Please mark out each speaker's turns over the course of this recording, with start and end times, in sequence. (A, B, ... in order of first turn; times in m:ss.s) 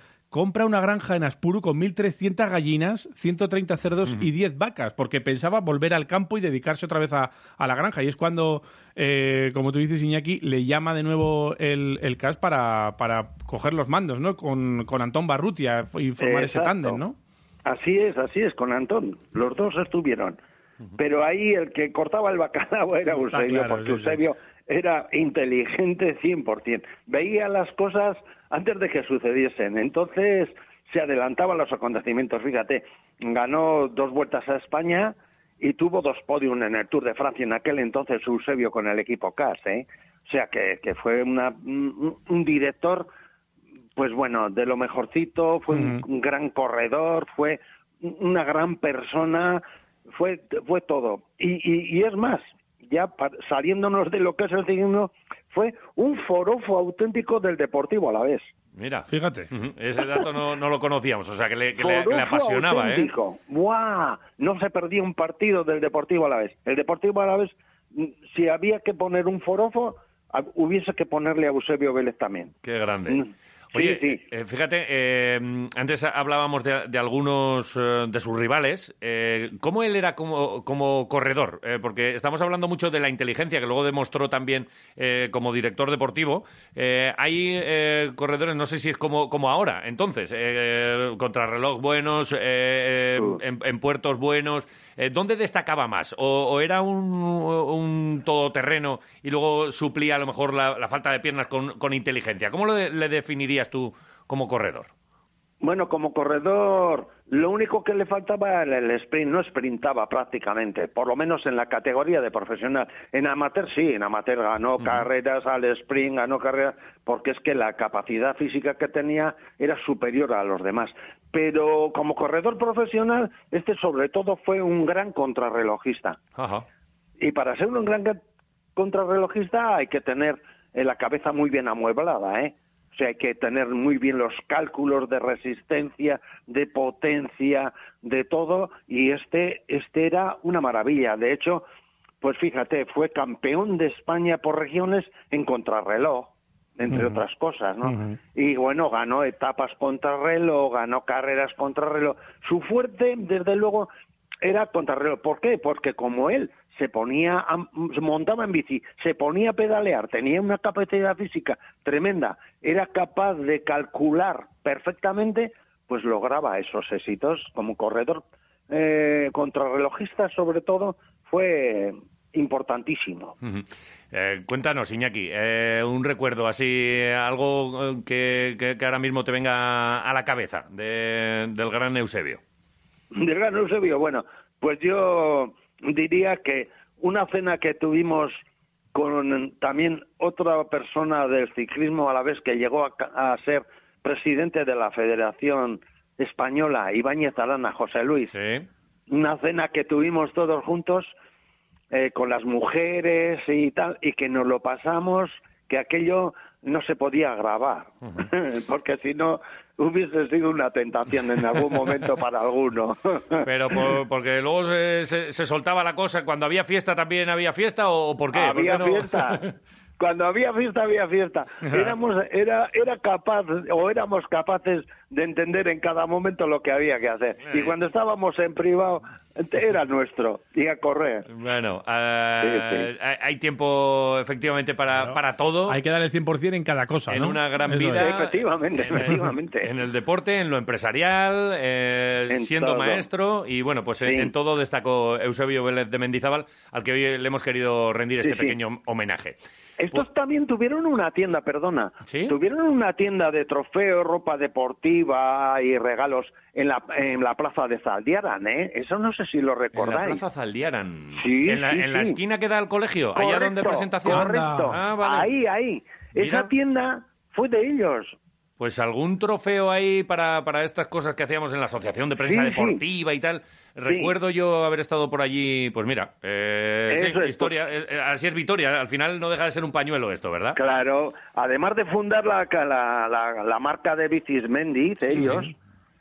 0:00.3-0:17.2 A
0:16.2-0:17.0 B
0:17.6-0:20.4 B
0:21.0-0:43.1 B
0:23.1-0:24.2 A
0:44.0-0:58.5 B
0:45.7-0:46.0 A
0:58.8-1:03.1 C
0:59.1-0:59.5 A
1:01.8-1:12.5 B
1:12.6-1:13.2 C
1:13.1-1:14.2 B
1:13.7-1:44.9 C
1:45.6-2:06.2 B
2:06.4-2:06.6 C
2:07.2-2:08.2 B
2:08.7-2:21.6 B
2:22.2-2:33.9 B
2:26.9-2:27.2 A
2:27.8-2:28.1 A
2:34.4-2:53.3 B
2:53.4-3:02.4 C
3:03.1-3:08.4 B
3:08.9-3:18.3 B
3:18.3-3:18.6 C
3:19.1-3:21.1 B
3:21.9-3:33.5 B
3:33.4-3:39.5 C
3:38.3-3:39.4 B
3:40.0-3:51.2 B
3:51.3-3:55.8 C
3:52.4-3:52.9 B
3:55.0-3:58.1 A
3:57.1-4:09.4 C
3:57.9-3:59.7 B
4:02.3-4:03.1 B
4:04.0-4:04.3 B
4:08.2-4:08.6 B
4:09.8-4:20.2 B
4:12.0-4:12.3 C
4:19.7-4:25.3 C
4:21.1-4:22.2 B
4:23.1-4:28.2 B
4:24.0-4:24.8 A
4:26.2-4:26.5 C
4:28.6-4:40.6 C
4:32.2-4:32.8 B
4:33.9-4:34.1 B
4:36.9-4:37.5 B
4:40.5-4:45.5 B
4:45.1-4:45.5 C